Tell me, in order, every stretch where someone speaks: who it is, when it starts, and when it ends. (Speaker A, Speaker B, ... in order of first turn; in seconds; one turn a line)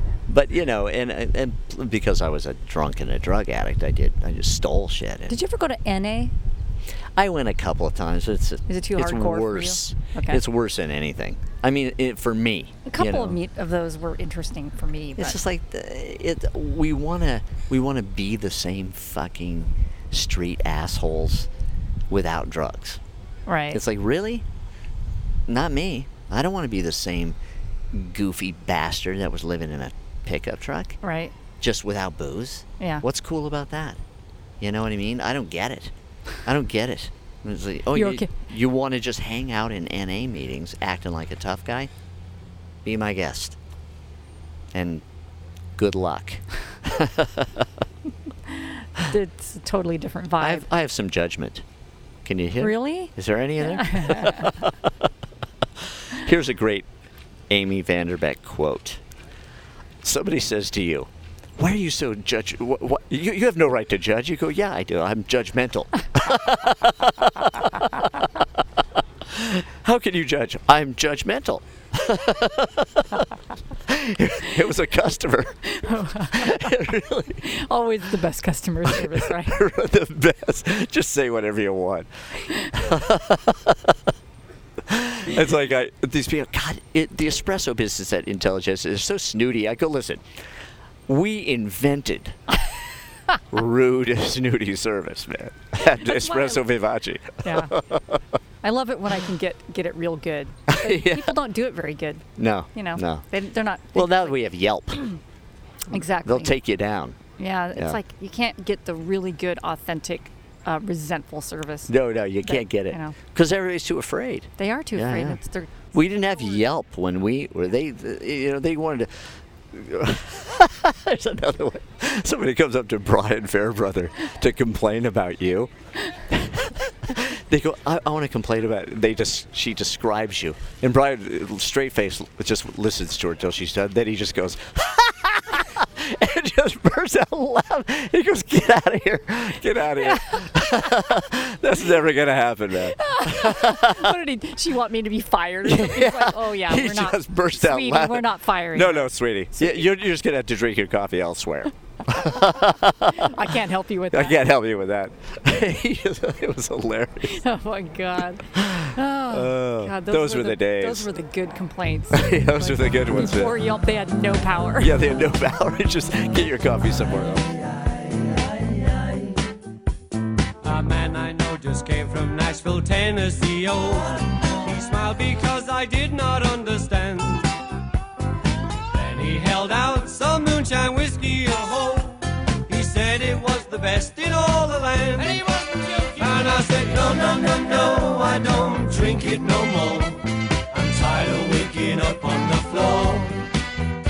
Speaker A: 0.3-5.4
Speaker B: 5.3-6.3
Speaker A: 7.2-13.4
Speaker B: 8.7-10.4
Speaker B: 12.9-15.4
Speaker A: 15.2-21.5
Speaker A: 22.1-23.0
Speaker B: 23.5-23.8
Speaker A: 23.7-24.5
Speaker A: 25.5-27.4
Speaker A: 27.9-31.0
Speaker B: 31.0-31.3
Speaker A: 31.6-34.0
Speaker B: 32.8-33.0
Speaker A: 34.6-35.9
Speaker A: 36.5-41.9
Speaker B: 37.9-38.3
Speaker A: 42.8-43.6
Speaker A: 44.7-45.0
Speaker A: 45.8-47.7
Speaker B: 48.5-50.6
Speaker A: 50.4-51.6
Speaker A: 52.2-55.1
Speaker B: 52.6-54.5
Speaker A: 55.8-56.9
Speaker A: 57.5-59.0
Speaker A: 60.0-68.5
Speaker A: 69.2-73.2
Speaker A: 73.9-75.6
Speaker B: 75.7-76.8
Speaker A: 76.3-77.4
Speaker B: 77.4-79.6
Speaker A: 78.9-82.1
Speaker B: 82.4-82.8
Speaker A: 82.6-83.9
Speaker A: 84.8-90.2
Speaker A: 91.1-92.6
Speaker A: 93.5-98.2
Speaker B: 95.8-96.7
Speaker B: 97.4-97.7
Speaker B: 98.6-104.4
Speaker A: 100.7-101.4
Speaker A: 102.4-103.2
Speaker A: 103.9-105.1
Speaker B: 105.9-106.6
Speaker A: 105.9-107.2
Speaker B: 107.4-111.9
Speaker A: 111.9-115.4
Speaker B: 112.5-113.2
Speaker B: 114.6-115.9
Speaker A: 115.9-144.1
Speaker B: 140.0-140.8
Speaker B: 142.8-149.9
Speaker A: 145.7-153.6
Speaker B: 152.2-154.4
Speaker A: 154.1-157.4
Speaker B: 157.3-164.9
Speaker A: 158.6-161.1
Speaker A: 162.1-163.6
Speaker A: 164.8-167.6
Speaker C: 170.6-177.6
Speaker C: 178.9-193.5